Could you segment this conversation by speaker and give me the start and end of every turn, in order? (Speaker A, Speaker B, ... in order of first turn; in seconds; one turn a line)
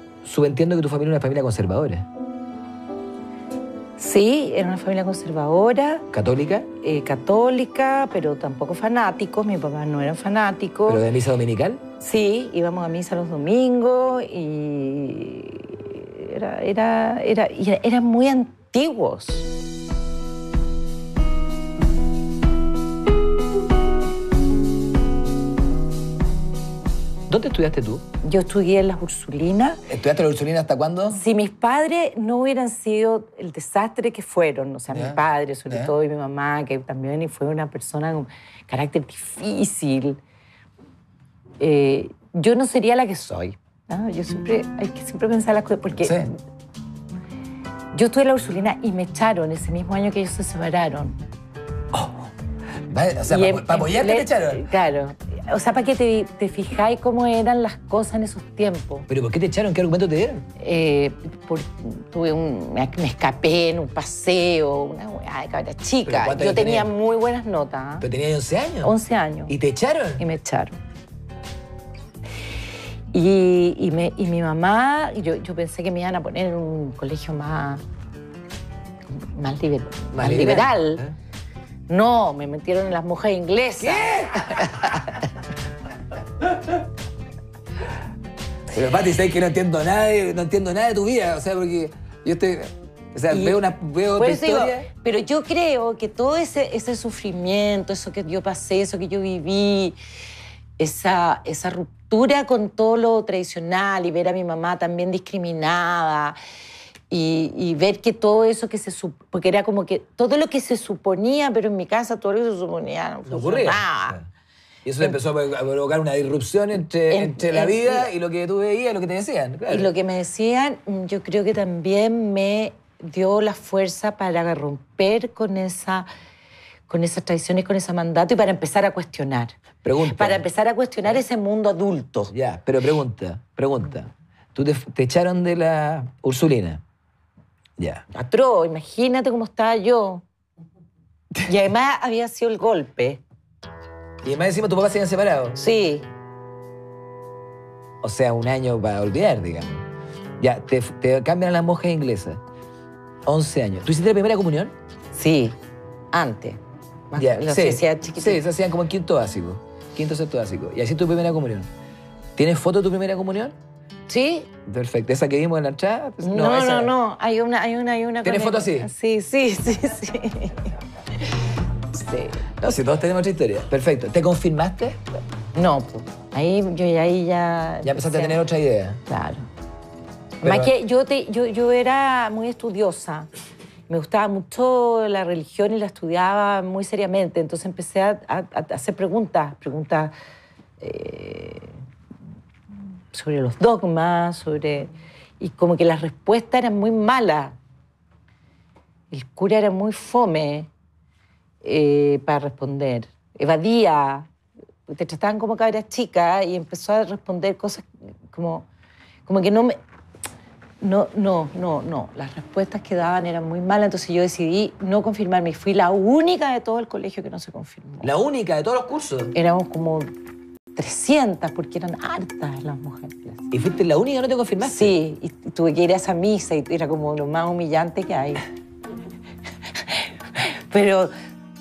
Speaker A: 0.2-2.0
Speaker B: 4.0-6.1
Speaker A: 6.1-6.7
Speaker B: 6.8-11.0
Speaker A: 10.9-11.8
Speaker B: 12.0-19.5
Speaker A: 27.3-28.0
Speaker B: 28.2-29.9
Speaker A: 29.9-31.2
Speaker B: 31.1-40.2
Speaker A: 34.9-35.9
Speaker B: 41.6-46.2
Speaker A: 46.0-46.3
Speaker B: 47.9-51.2
Speaker A: 51.9-52.3
Speaker A: 52.9-54.7
Speaker B: 53.2-59.1
Speaker A: 59.1-60.5
Speaker B: 60.6-68.1
Speaker A: 66.1-66.9
Speaker A: 68.0-68.9
Speaker B: 68.8-69.5
Speaker A: 69.5-70.2
Speaker B: 70.2-70.8
Speaker B: 73.1-77.8
Speaker B: 79.1-81.0
Speaker A: 80.1-81.1
Speaker B: 81.9-85.3
Speaker A: 83.8-85.1
Speaker A: 88.7-94.9
Speaker B: 93.3-100.0
Speaker B: 100.8-106.4
Speaker B: 107.1-114.2
Speaker A: 113.3-114.3
Speaker A: 114.8-119.9
Speaker B: 117.1-118.1
Speaker B: 119.7-126.1
Speaker B: 126.9-129.5
Speaker A: 129.8-130.4
Speaker B: 130.1-132.3
Speaker A: 132.3-136.8
Speaker A: 137.8-138.0
Speaker B: 138.1-140.2
Speaker B: 141.4-143.2
Speaker A: 144.2-145.6
Speaker B: 145.6-146.1
Speaker A: 148.0-149.8
Speaker A: 150.4-152.4
Speaker A: 153.2-154.7
Speaker B: 155.1-155.6
Speaker B: 156.1-156.6
Speaker B: 157.1-158.4
Speaker A: 157.2-161.7
Speaker A: 162.4-163.6
Speaker B: 164.1-164.5
Speaker A: 164.7-166.9
Speaker B: 166.2-170.7
Speaker A: 168.2-168.9
Speaker B: 171.9-172.5
Speaker A: 172.6-175.0
Speaker B: 175.5-178.4
Speaker A: 177.8-179.0
Speaker B: 179.1-179.5
Speaker B: 180.4-183.3
Speaker A: 180.4-180.7
Speaker B: 183.9-190.1
Speaker B: 190.8-191.8
Speaker B: 193.1-197.5
Speaker B: 199.1-200.7
Speaker B: 201.6-204.3
Speaker B: 204.9-208.7
Speaker B: 209.2-209.8
Speaker B: 210.8-218.1
Speaker A: 218.0-219.3
Speaker B: 219.3-220.1
Speaker B: 220.8-223.5
Speaker A: 223.5-224.9
Speaker B: 224.6-228.5
Speaker B: 229.8-231.1